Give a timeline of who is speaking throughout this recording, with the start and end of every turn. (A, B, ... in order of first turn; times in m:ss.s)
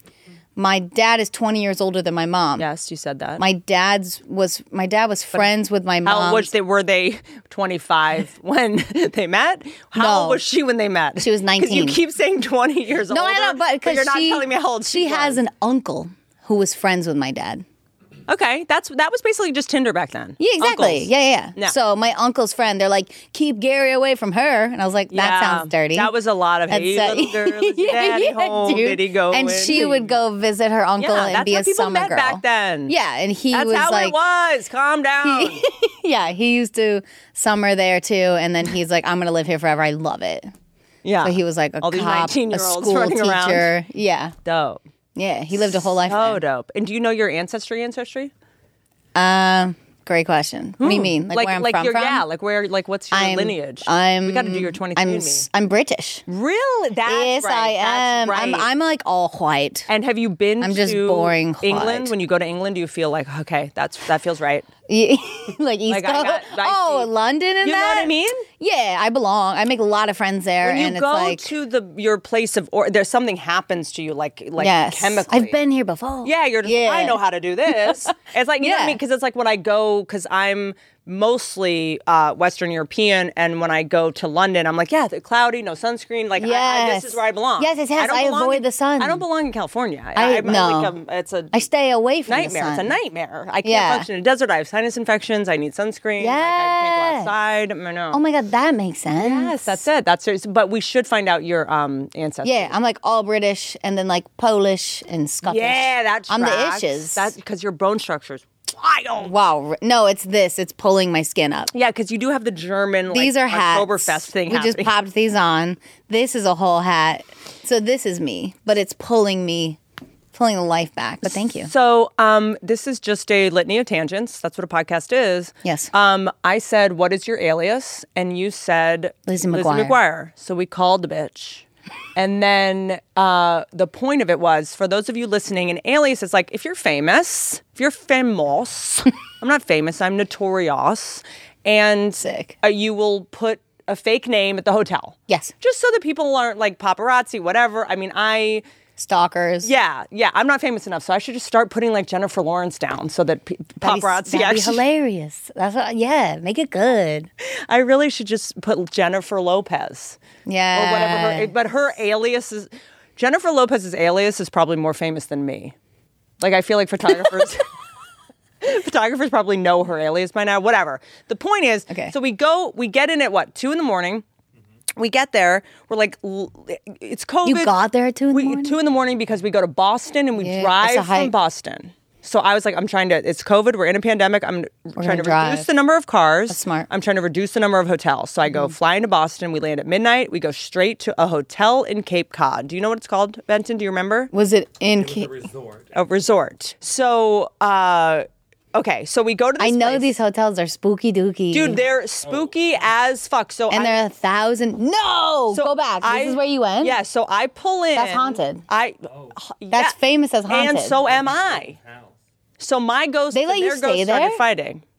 0:00.6-0:02.6 A
0:02.6-0:03.4 B
0:03.4-0:06.5 A
0:06.0-0:15.4 B
0:10.0-0:10.4 A
0:11.2-0:12.0 A
0:13.1-0:17.6 A
0:18.3-0:21.8 B
0:20.4-0:26.1 A
0:25.1-0:30.2 B
0:26.7-0:34.2 A
0:31.0-0:32.9 B
0:33.5-0:35.6 B
0:35.2-0:40.5 A
0:41.0-0:43.7 B
0:41.2-0:44.3 A
0:44.4-0:44.8 B
0:45.2-0:46.4 A
0:46.0-0:48.3 B
0:49.1-0:52.2 A
0:50.8-0:55.5 B
0:53.1-0:56.2 A
0:56.3-0:58.7 B
0:57.0-0:59.9 A
0:59.9-1:04.6 B
1:00.6-1:02.1 A
1:04.9-1:11.5 A
1:05.9-1:07.1 B
1:07.6-1:08.4 B
1:10.6-1:15.6 B
1:14.6-1:17.2 A
1:16.2-1:31.5 B
1:18.6-1:19.0 A
1:26.4-1:29.2 A
1:30.1-1:30.9 A
1:31.5-1:32.9 A
1:32.3-1:38.2 B
1:33.6-1:34.1 A
1:36.2-1:37.3 A
1:38.1-1:39.8 A
1:39.2-1:42.7 B
1:42.4-1:47.3 A
1:45.4-1:49.4 B
1:49.2-1:51.7 A
1:51.7-1:54.9 B
1:53.1-1:59.8 A
2:00.3-2:01.7 A
2:01.3-2:28.6 B
2:05.6-2:05.9 A
2:09.3-2:10.0 A
2:22.2-2:22.5 A
2:25.3-2:25.5 A
2:29.0-2:29.7 A
2:29.6-2:34.8 B
2:33.8-2:37.3 A
2:37.4-2:40.2 B
2:40.4-2:41.5 A
2:40.7-2:45.7 B
2:46.4-2:47.7 B
2:48.6-2:54.2 B
2:55.0-2:57.7 B
2:57.4-2:58.8 A
2:58.3-3:14.3 B
3:00.4-3:01.3 A
3:05.0-3:05.7 A
3:06.5-3:06.9 A
3:14.3-3:15.4 A
3:15.0-3:15.9 C
3:15.9-3:20.1 B
3:19.6-3:21.8 A
3:21.5-3:24.0 B
3:23.7-3:27.0 A
3:25.5-3:30.0 B
3:27.9-3:28.6 A
3:29.7-3:31.0 A
3:30.5-3:31.8 B
3:31.0-3:32.1 C
3:32.6-3:34.8 B
3:33.3-3:34.4 A